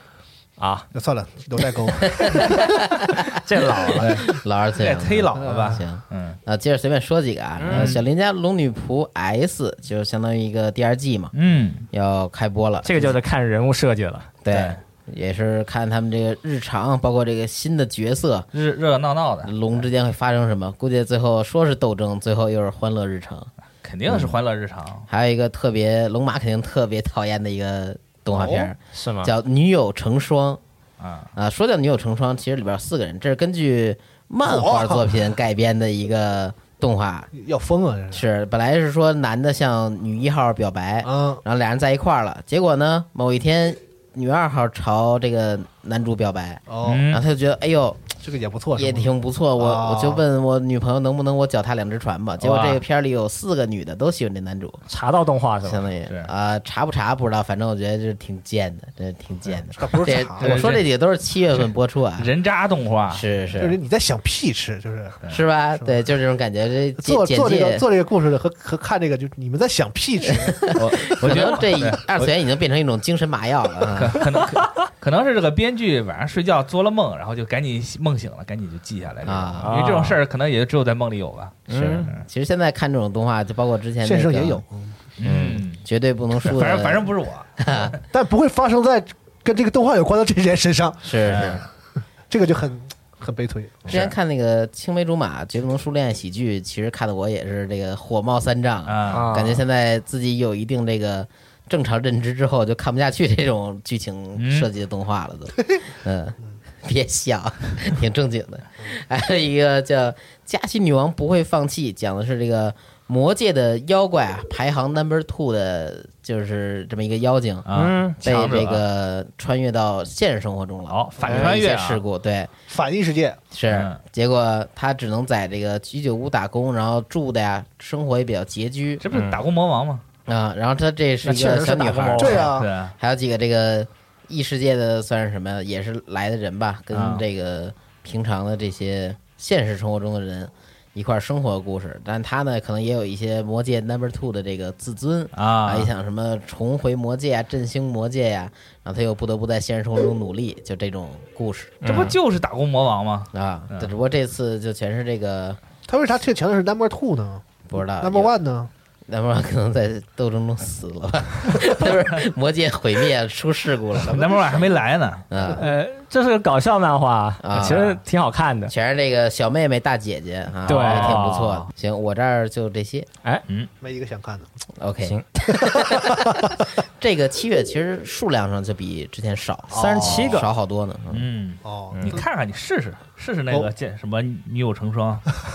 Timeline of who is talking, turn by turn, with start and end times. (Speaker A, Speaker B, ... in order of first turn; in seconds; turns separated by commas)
Speaker A: 0.6-0.9, Speaker B: 0.9-2.7, Speaker C: 2.1-3.1, Speaker A: 3.4-4.1, Speaker C: 4.0-11.3, Speaker D: 4.0-4.3, Speaker D: 4.8-6.4, Speaker B: 5.4-5.8, Speaker A: 7.6-8.0, Speaker D: 7.7-8.0, Speaker D: 11.3-11.9, Speaker C: 11.9-13.2, Speaker A: 12.8-14.3, Speaker C: 14.4-18.5, Speaker D: 14.5-14.8, Speaker D: 18.5-19.5, Speaker C: 19.4-23.5, Speaker D: 23.8-25.1, Speaker C: 24.1-24.4, Speaker C: 25.1-30.6, Speaker B: 28.4-28.6, Speaker A: 28.9-29.3, Speaker D: 31.0-31.3, Speaker C: 31.4-37.3, Speaker B: 34.5-35.1, Speaker B: 37.3-38.2, Speaker C: 38.1-48.2, Speaker B: 41.0-41.4, Speaker B: 46.7-47.1, Speaker D: 46.8-47.2, Speaker B: 48.2-50.2, Speaker C: 48.8-54.8, Speaker D: 52.4-52.8, Speaker A: 54.9-55.9, Speaker C: 55.6-62.3, Speaker B: 59.7-60.7, Speaker D: 60.4-60.8, Speaker D: 62.2-63.6, Speaker C: 63.1-63.8, Speaker B: 63.6-65.2, Speaker C: 65.3-67.8, Speaker B: 67.0-70.7, Speaker C: 70.3-74.2, Speaker D: 70.8-72.3, Speaker D: 74.0-82.3, Speaker C: 79.2-79.8, Speaker A: 79.6-80.2, Speaker A: 81.7-82.1, Speaker C: 81.8-84.6, Speaker B: 84.0-85.0, Speaker D: 85.2-85.8, Speaker C: 85.2-88.0, Speaker D: 86.4-87.7, Speaker B: 88.1-91.6, Speaker C: 91.0-91.7, Speaker D: 91.2-91.6, Speaker B: 92.3-94.0, Speaker D: 93.9-94.1, Speaker C: 93.9-117.7, Speaker D: 98.9-99.3, Speaker A: 99.1-99.6, Speaker D: 104.4-104.7, Speaker D: 117.7-118.8, Speaker A: 117.8-118.2, Speaker C: 118.2-122.5, Speaker D: 120.9-122.0, Speaker B: 122.7-123.4, Speaker C: 123.5-129.0, Speaker D: 123.7-124.0, Speaker D: 129.0-130.0, Speaker A: 129.1-129.4, Speaker C: 130.3-151.8, Speaker A: 131.2-132.5, Speaker B: 132.2-132.7, Speaker D: 132.5-132.9, Speaker D: 136.9-137.2, Speaker D: 145.3-145.9, Speaker A: 151.8-152.2, Speaker D: 151.8-153.9, Speaker C: 153.3-155.6, Speaker B: 155.9-157.4, Speaker C: 157.7-158.3, Speaker B: 158.0-158.7, Speaker C: 159.1-164.6, Speaker D: 164.0-165.2, Speaker B: 164.2-164.8, Speaker C: 165.3-165.6, Speaker A: 165.6-168.7, Speaker C: 167.4-168.0, Speaker C: 168.7-173.1, Speaker A: 170.7-171.3, Speaker D: 170.7-171.7, Speaker B: 173.8-174.5, Speaker C: 174.8-176.5, Speaker B: 175.6-176.5, Speaker C: 177.0-181.3, Speaker A: 179.7-180.5, Speaker D: 181.1-185.4, Speaker B: 181.6-182.2, Speaker A: 181.9-182.2